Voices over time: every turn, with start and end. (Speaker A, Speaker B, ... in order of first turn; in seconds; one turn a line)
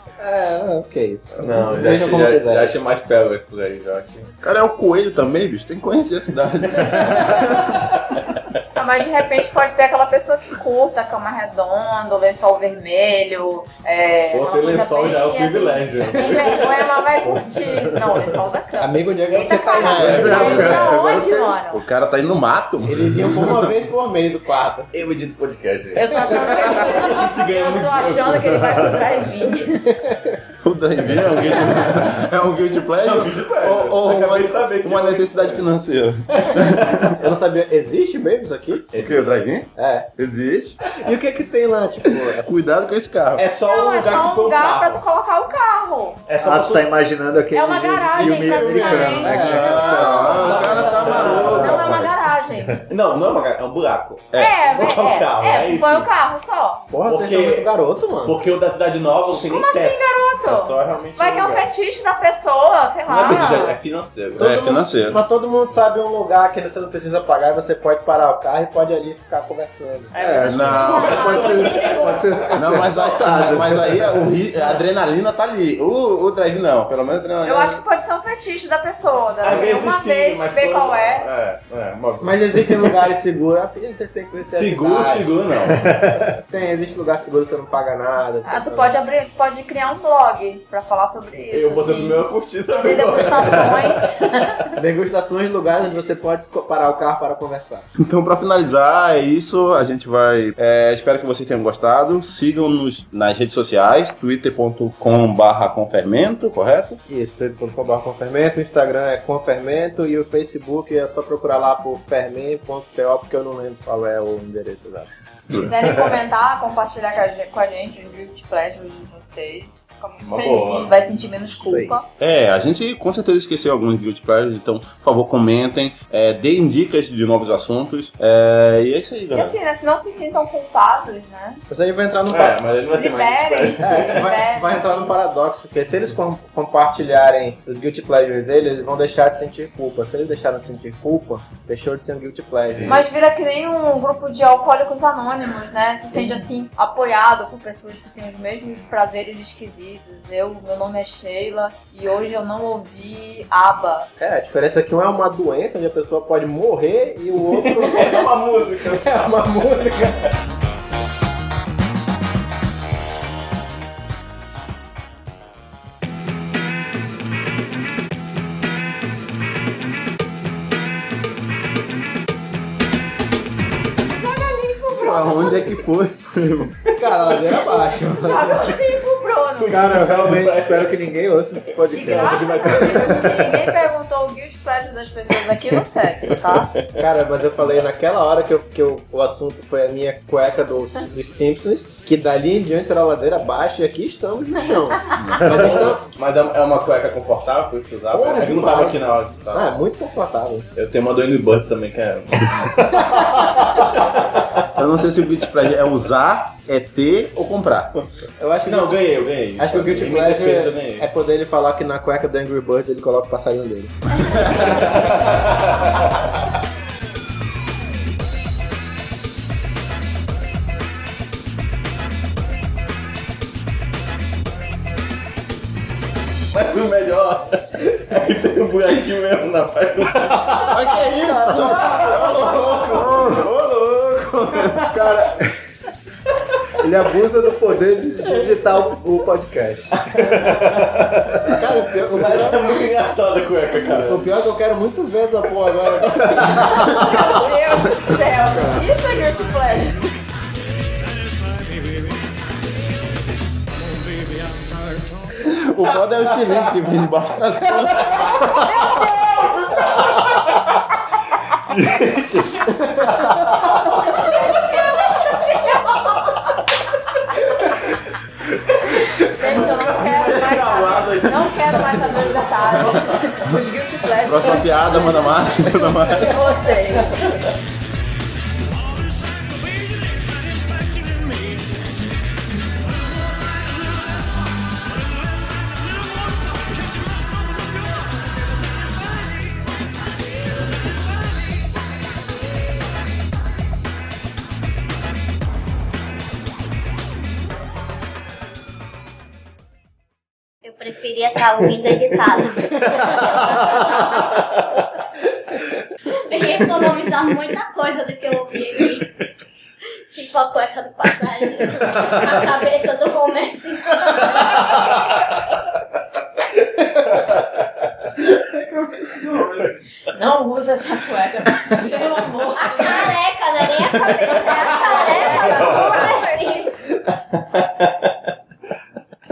Speaker A: 0.2-2.7
Speaker B: 1.4-4.3
Speaker C: 4.4-7.9
Speaker B: 7.0-7.4
Speaker D: 8.8-21.8
Speaker B: 14.3-18.0
Speaker A: 18.8-20.9
Speaker B: 19.3-20.4
Speaker C: 19.8-23.7
Speaker A: 22.8-24.9
Speaker B: 24.9-29.1
Speaker D: 25.9-29.9
Speaker A: 29.9-30.4
Speaker C: 30.6-37.1
Speaker B: 31.1-32.3
Speaker D: 31.6-31.9
Speaker B: 32.9-35.7
Speaker B: 36.6-37.1
Speaker A: 37.1-38.9
Speaker B: 38.9-39.3
Speaker C: 38.9-40.8
Speaker A: 39.8-40.1
Speaker A: 40.9-42.5
Speaker C: 42.4-43.5
Speaker B: 43.3-45.0
Speaker D: 43.6-46.2
Speaker B: 46.3-46.9
Speaker E: 46.4-50.5
Speaker D: 47.5-52.8
Speaker C: 48.2-52.1
Speaker A: 48.4-52.1
Speaker B: 50.5-51.7
Speaker B: 52.9-56.1
Speaker C: 54.3-54.6
Speaker D: 54.3-56.8
Speaker A: 56.9-58.4
Speaker B: 57.0-57.7
Speaker B: 58.2-61.7
Speaker D: 59.5-63.8
Speaker B: 63.1-64.6
Speaker A: 64.4-70.1
Speaker C: 64.4-65.2
Speaker D: 70.1-72.5
Speaker E: 70.1-74.0
Speaker C: 70.4-71.5
Speaker B: 70.8-73.5
Speaker C: 72.5-77.8
Speaker D: 77.4-81.2
Speaker B: 79.4-82.9
Speaker A: 82.2-85.4
Speaker B: 84.4-86.1
Speaker E: 85.9-86.2
Speaker A: 86.5-89.0
Speaker D: 88.5-94.7
Speaker B: 91.5-94.1
Speaker A: 94.8-97.9
Speaker C: 98.0-107.0
Speaker A: 107.1-115.2
Speaker D: 115.5-122.1
Speaker B: 120.2-120.9
Speaker A: 121.6-122.0
Speaker C: 122.2-129.6
Speaker D: 129.3-131.6
Speaker A: 131.7-132.6
Speaker B: 132.3-134.3
Speaker D: 132.9-135.2
Speaker A: 133.8-143.0
Speaker B: 142.7-143.0
Speaker D: 142.8-154.1
Speaker A: 154.2-158.3
Speaker B: 157.5-159.9
Speaker A: 158.9-160.3
Speaker D: 174.2-175.8
Speaker C: 174.9-176.7
Speaker A: 176.9-178.8
Speaker D: 177.6-180.0
Speaker E: 179.6-183.3
Speaker B: 179.8-181.0
Speaker D: 181.9-186.7
Speaker B: 181.9-183.7
Speaker B: 185.7-186.9
Speaker A: 186.9-196.0
Speaker D: 195.1-195.3
Speaker B: 195.3-199.7
Speaker A: 198.1-200.7
Speaker B: 200.7-204.4
Speaker A: 202.9-203.3
Speaker C: 204.7-208.0
Speaker A: 208.4-215.6
Speaker B: 208.7-211.1
Speaker B: 226.5-230.8
Speaker E: 230.3-230.6
Speaker C: 230.6-235.1
Speaker E: 232.9-233.5
Speaker E: 234.8-235.5
Speaker E: 236.8-241.4
Speaker B: 240.0-241.4
Speaker A: 241.4-242.7
Speaker B: 242.1-244.3
Speaker A: 243.9-247.2
Speaker D: 246.7-250.1
Speaker C: 255.4-258.7
Speaker D: 258.4-260.8
Speaker E: 261.7-263.7
Speaker A: 263.0-263.5
Speaker D: 264.1-266.5
Speaker F: 265.3-265.6
Speaker D: 268.9-275.3
Speaker B: 269.0-272.9
Speaker C: 274.2-276.5
Speaker D: 275.9-277.3
Speaker F: 300.6-304.3
Speaker F: 306.3-309.1
Speaker F: 310.1-315.0
Speaker C: 319.3-319.7
Speaker D: 320.1-323.2
Speaker F: 322.6-326.7
Speaker D: 324.3-326.7
Speaker B: 327.1-328.1